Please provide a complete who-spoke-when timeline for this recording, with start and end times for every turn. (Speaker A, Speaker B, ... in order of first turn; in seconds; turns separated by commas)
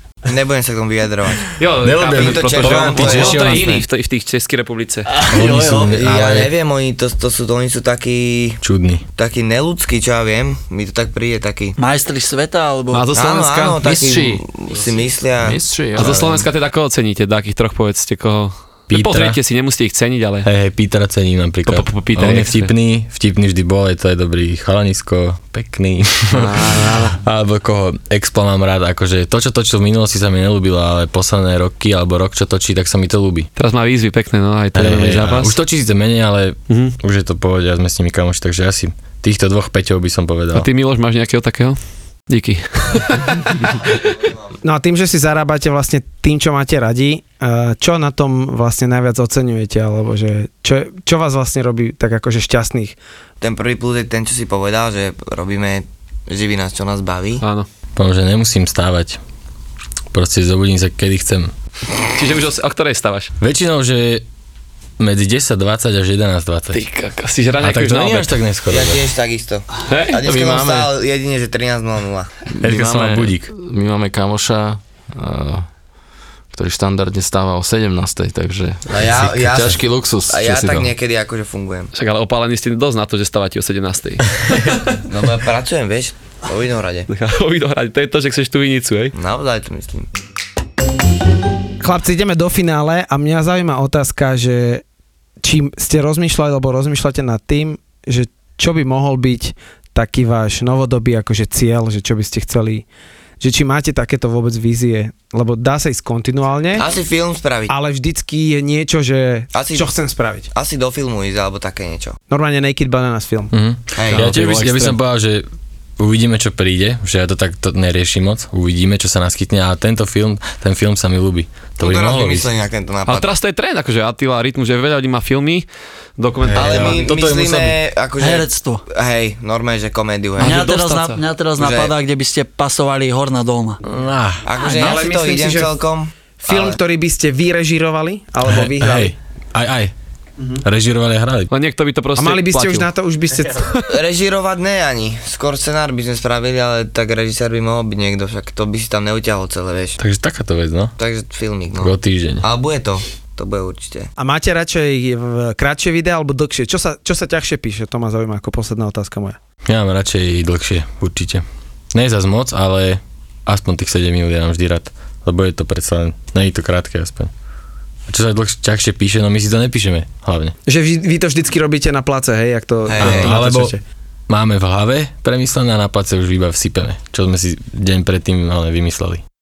Speaker A: 0.3-3.7, Speaker B: 1.6-5.1, Speaker C: 1.8-3.8, Speaker D: 5.2-6.0, Speaker C: 5.3-6.5, Speaker A: 5.5-8.6, Speaker C: 8.6-9.0, Speaker A: 9.2-11.8, Speaker D: 11.8-13.1, Speaker B: 12.9-13.8, Speaker A: 13.1-16.2, Speaker E: 13.8-16.4, Speaker B: 16.0-20.5, Speaker C: 18.9-19.4, Speaker C: 20.4-26.6, Speaker B: 21.7-22.7, Speaker A: 26.3-27.2, Speaker C: 27.2-33.5, Speaker B: 33.6-35.6, Speaker C: 34.8-40.7, Speaker B: 36.7-37.0, Speaker B: 40.5-44.0, Speaker F: 44.6-53.0, Speaker A: 53.4-57.4, Speaker B: 57.4-57.7, Speaker C: 58.0-59.2, Speaker C: 60.1-61.5, Speaker B: 62.1-63.3, Speaker C: 63.4-64.2, Speaker C: 65.0-66.8, Speaker B: 66.7-68.4, Speaker C: 67.6-69.0, Speaker A: 68.7-72.3, Speaker B: 69.9-70.2, Speaker E: 70.2-70.9, Speaker E: 72.5-75.7, Speaker C: 72.6-73.5, Speaker E: 76.5-80.9, Speaker A: 78.9-81.9, Speaker B: 81.9-84.3, Speaker A: 85.0-87.1, Speaker B: 87.1-89.2, Speaker A: 89.2-90.1, Speaker F: 91.8-94.8, Speaker F: 95.4-102.8, Speaker F: 103.4-106.9, Speaker A: 106.8-107.7, Speaker F: 107.7-110.5, Speaker A: 109.5-109.9, Speaker A: 110.5-112.2, Speaker F: 112.3-113.5, Speaker C: 113.5-115.5, Speaker A: 114.0-114.3, Speaker E: 114.1-115.0, Speaker C: 116.0-122.5, Speaker A: 121.8-123.3, Speaker B: 123.1-125.7, Speaker B: 126.2-127.0, Speaker C: 126.4-127.8, Speaker A: 126.5-130.6, Speaker D: 128.2-128.8, Speaker B: 130.4-131.2, Speaker D: 130.4-133.8, Speaker A: 131.6-131.9, Speaker C: 133.9-134.4, Speaker A: 134.4-136.8, Speaker D: 134.6-134.9, Speaker F: 134.6-135.8, Speaker F: 136.4-139.2, Speaker C: 138.4-139.9, Speaker C: 140.6-141.5, Speaker B: 141.5-142.9, Speaker F: 142.2-143.7, Speaker A: 143.9-150.0, Speaker C: 150.0-150.9, Speaker A: 151.0-154.1, Speaker C: 151.8-152.4, Speaker F: 154.2-159.4, Speaker C: 159.7-167.3, Speaker C: 168.1-170.6, Speaker F: 170.7-173.8, Speaker A: 172.9-173.3, Speaker C: 173.0-173.7, Speaker C: 174.3-179.2